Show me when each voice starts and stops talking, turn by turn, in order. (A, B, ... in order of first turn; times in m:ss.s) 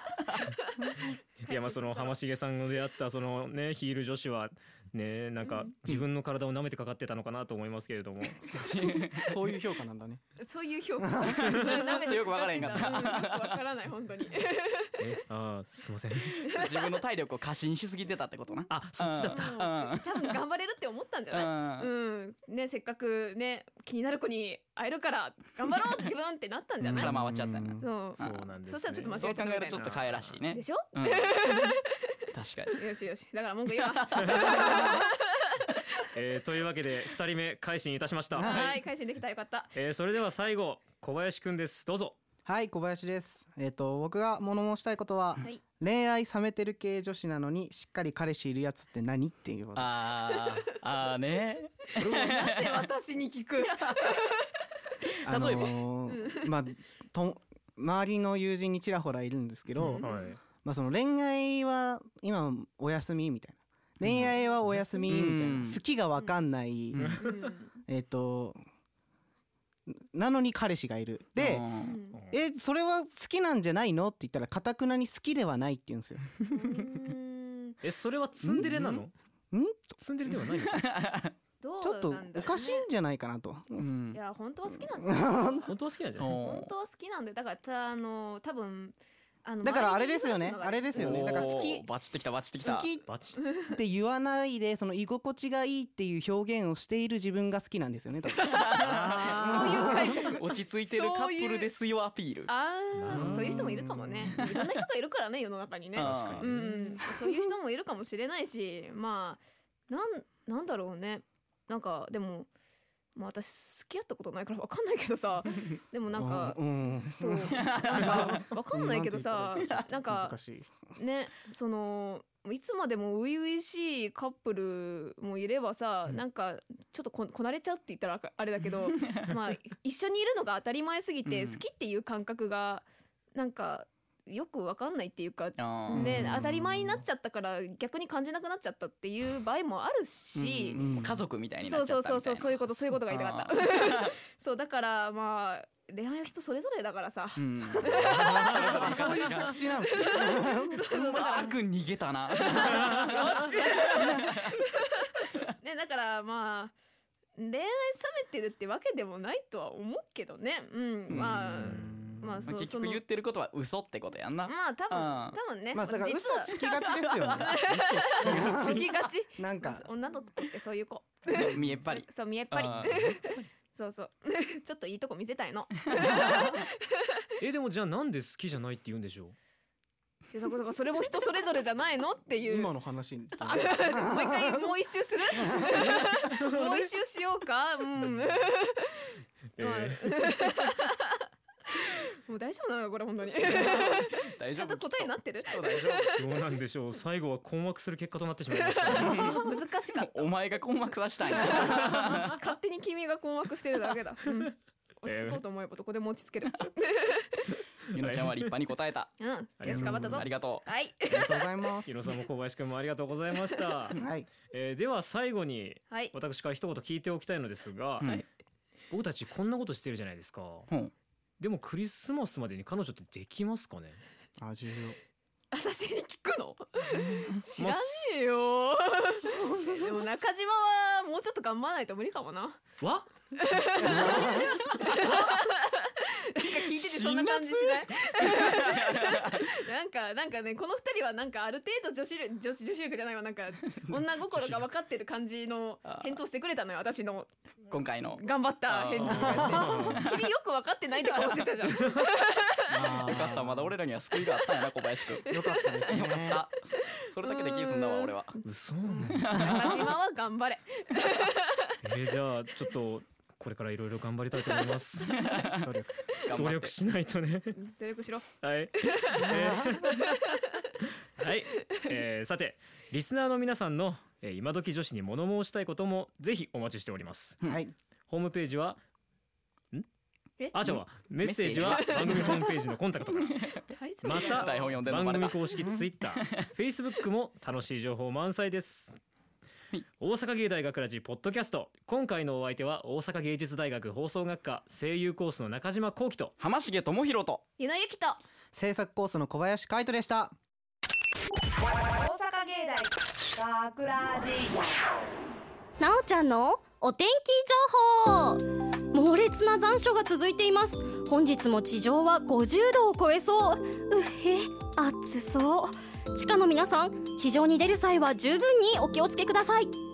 0:00.3-0:02.2 A
0:01.5-0:08.5 B
0:05.4-0:05.8 A
0:08.5-0:09.4 C
0:09.2-0:10.2 D
0:10.4-0:15.0 A
0:11.0-0:11.6 D
0:11.5-0:11.8 B
0:11.6-0:13.6 C
0:15.0-0:16.4 B
0:16.4-0:20.4 C
0:16.4-0:16.9 A
0:18.7-0:19.6 B
0:19.3-0:27.2 A
0:21.3-0:21.9 C
0:26.8-0:27.8 D
0:27.0-0:28.6 C
0:27.8-0:32.1 A
0:28.2-0:30.5 B
0:29.2-0:31.3 C
0:32.3-0:32.9 C
0:32.7-0:36.0 A
0:34.2-0:35.0 B
0:36.1-0:38.8 B
0:38.3-0:38.8 D
0:38.4-0:39.7 A
0:39.8-0:42.2 B
0:42.5-0:50.0 D
0:49.8-0:52.9 C
0:50.2-0:50.6 A
0:52.0-0:52.4 B
0:52.0-0:54.5 A
0:55.2-1:00.1 D
0:55.3-0:55.8 C
0:56.1-0:56.5 A
0:59.8-1:00.2 A
1:00.0-1:00.4 B
1:00.6-1:07.2 D
1:04.0-1:04.4 C
1:05.0-1:05.8 C
1:06.9-1:07.2 C
1:07.2-1:07.7 A
1:07.9-1:08.6 D
1:09.9-1:11.7 D
1:11.4-1:12.0 C
1:11.8-1:12.2 A
1:12.2-1:16.3 D
1:16.5-1:17.8 A
1:17.8-1:19.1 B
1:18.4-1:18.8 D
1:18.6-1:19.0 C
1:19.5-1:20.0 D
1:20.0-1:21.0 B
1:20.6-1:21.3 C
1:21.6-1:22.8 A
1:21.8-1:23.9 D
1:23.8-1:24.2 C
1:24.1-1:25.7 A
1:24.8-1:25.6 D
1:25.7-1:26.4 B
1:26.2-1:26.7 C
1:26.3-1:31.6 A
1:29.6-1:31.9 D
1:30.9-1:32.9 C
1:32.6-1:33.1 D
1:33.0-1:33.4 B
1:33.5-1:33.7 A
1:33.7-1:40.2 D
1:38.4-1:41.7 A
1:38.8-1:39.2 C
1:38.8-1:40.0 B
1:40.2-1:42.5 C
1:42.5-1:52.5 A
1:43.0-1:43.8 B
1:43.2-1:44.4 D
1:46.0-1:46.5 C
1:46.0-1:46.6 B
1:46.4-1:47.5 D
1:53.2-2:00.4 A
1:56.1-2:00.9 D
1:57.4-1:58.4 C
1:59.6-1:59.8 C
2:01.0-2:20.9 A
2:11.2-2:11.6 C
2:15.6-2:16.2 C
2:15.9-2:17.0 D
2:20.4-2:24.2 C
2:20.7-2:21.2 D
2:21.6-2:31.6 A
2:27.4-2:29.6 C
2:28.0-2:31.4 D
2:31.0-2:34.6 C
2:32.3-2:34.7 A
2:35.4-2:36.7 A
2:37.4-2:43.0 A
2:41.1-2:41.5 C
2:41.6-2:42.2 D
2:42.5-2:45.4 C
2:44.4-2:57.3 A
2:45.7-2:49.9 D
2:46.6-2:48.7 C
2:51.3-2:53.2 C
2:57.4-2:59.4 B
3:00.3-3:02.7 A
3:02.5-3:04.7 D
3:03.4-3:09.0 A
3:05.3-3:06.0 D
3:06.3-3:06.9 B
3:09.6-3:10.0 B
3:09.6-3:16.2 A
3:13.4-3:16.2 C
3:16.2-3:19.1 B
3:18.5-3:20.4 A
3:19.0-3:22.4 C
3:21.3-3:27.6 A
3:25.1-3:25.4 B
3:27.9-3:29.1 C
3:28.0-3:28.4 B
3:29.2-3:31.5 A
3:29.6-3:30.2 B
3:29.7-3:30.1 D
3:29.7-3:30.7 C
3:31.1-3:31.9 D
3:31.9-3:38.2 B
3:34.0-3:34.3 D
3:38.9-3:40.7 B
3:41.4-3:44.0 B
3:44.4-3:45.0 D
3:45.5-3:52.6 A
3:47.6-3:48.2 B
3:49.5-3:49.9 D
3:52.8-3:53.1 B
3:53.4-4:07.3 A
3:53.8-3:54.5 D
3:55.0-3:55.3 B
3:56.5-3:59.5 C
4:03.7-4:04.6 C
4:05.9-4:06.2 C
4:07.7-4:10.3 C
4:08.0-4:13.0 A
4:09.0-4:10.0 B
4:09.2-4:09.7 D
4:11.1-4:11.4 C
4:11.7-4:12.0 B
4:12.7-4:13.8 D
4:13.0-4:15.3 C
4:14.3-4:16.0 A
4:15.3-4:16.4 D
4:15.9-4:18.4 C
4:16.8-4:21.7 A
4:18.4-4:19.3 B
4:19.0-4:19.9 C
4:21.8-4:25.1 B
4:25.1-4:25.7 C
4:25.4-4:26.0 D
4:26.2-4:26.8 C
4:26.3-4:27.6 B
4:27.6-4:28.3 A
4:28.4-4:30.1 B
4:28.8-4:30.6 A
4:29.3-4:29.8 D
4:31.2-4:37.5 B
4:37.4-4:37.7 D
4:38.1-4:38.8 B
4:40.5-4:43.5 B
4:40.6-4:42.0 C
4:41.7-4:42.6 A
4:43.2-4:46.5 C
4:43.7-4:44.8 A
4:44.0-4:49.0 B
4:50.0-4:56.3 B
4:56.4-4:57.4 C
4:57.6-4:58.2 A
4:58.5-5:00.3 D
5:02.0-5:04.6 E
5:05.8-5:19.7 F